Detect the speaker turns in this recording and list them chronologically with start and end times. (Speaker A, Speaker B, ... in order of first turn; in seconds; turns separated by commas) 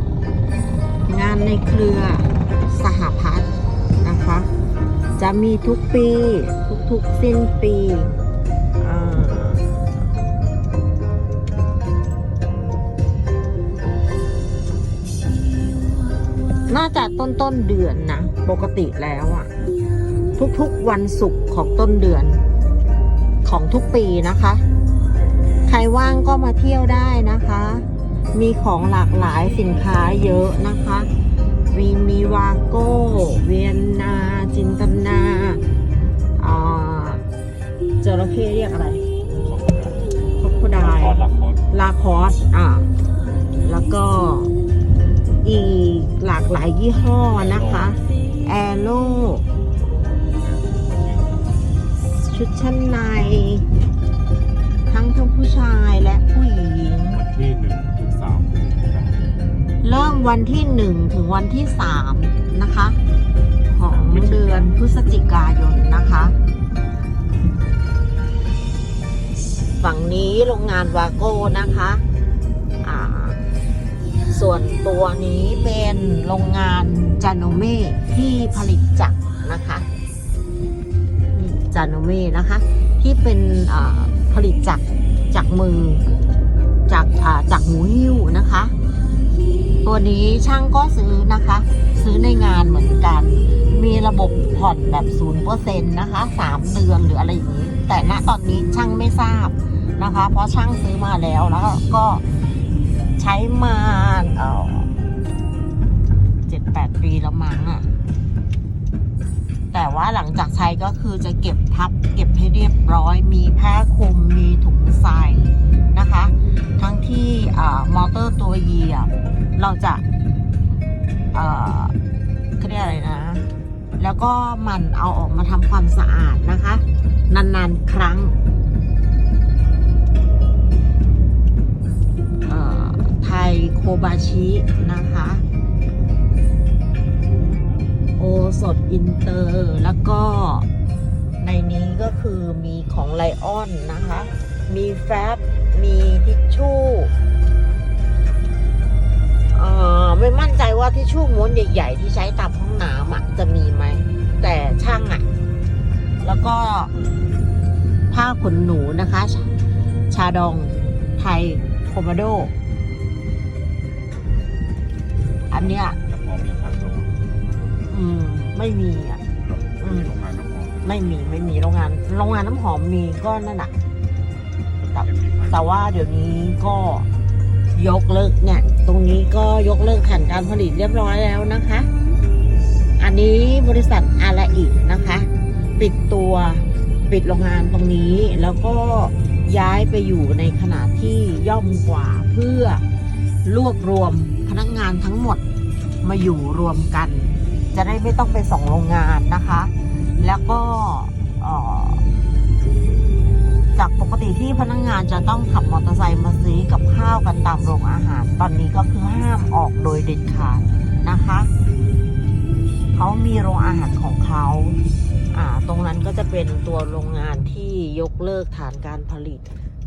Speaker A: 1.1-3.5, Speaker A: 4.0-4.5, Speaker A: 5.2-8.1, Speaker A: 8.8-9.9, Speaker A: 16.7-19.5, Speaker A: 20.4-22.4, Speaker A: 23.4-24.6, Speaker A: 25.6-31.1, Speaker A: 31.7-35.6, Speaker A: 36.4-37.2, Speaker A: 38.0-39.0, Speaker B: 39.4-40.0, Speaker A: 40.4-42.9, Speaker B: 40.8-41.6, Speaker A: 43.6-44.5, Speaker A: 45.4-49.5, Speaker B: 50.3-51.6, Speaker A: 52.2-53.7, Speaker A: 54.9-57.2, Speaker B: 57.1-59.2, Speaker A: 59.8-63.0, Speaker A: 63.7-66.4, Speaker B: 63.9-64.5, Speaker A: 69.8-72.0, Speaker A: 72.8-73.4, Speaker A: 74.3-79.9, Speaker A: 81.3-86.0, Speaker A: 86.9-88.7, Speaker A: 89.8-102.2, Speaker A: 103.2-104.9, Speaker A: 106.5-107.9, Speaker A: 109.7-120.0, Speaker A: 121.3-122.0, Speaker A: 122.6-128.3, Speaker A: 132.4-135.4, Speaker A: 138.2-140.7, Speaker A: 141.4-147.1, Speaker A: 149.5-155.3, Speaker A: 156.2-156.9, Speaker A: 158.1-159.5, Speaker A: 160.1-162.5, Speaker A: 165.5-166.0, Speaker B: 165.9-167.2, Speaker A: 167.9-169.2, Speaker B: 169.3-171.2, Speaker A: 169.8-170.1, Speaker A: 170.8-173.7, Speaker B: 174.8-175.7, Speaker A: 174.9-177.1, Speaker A: 177.7-181.9, Speaker A: 183.0-192.8, Speaker A: 193.4-195.4, Speaker A: 196.0-202.0, Speaker A: 203.7-211.5, Speaker A: 212.9-214.8, Speaker A: 215.3-219.4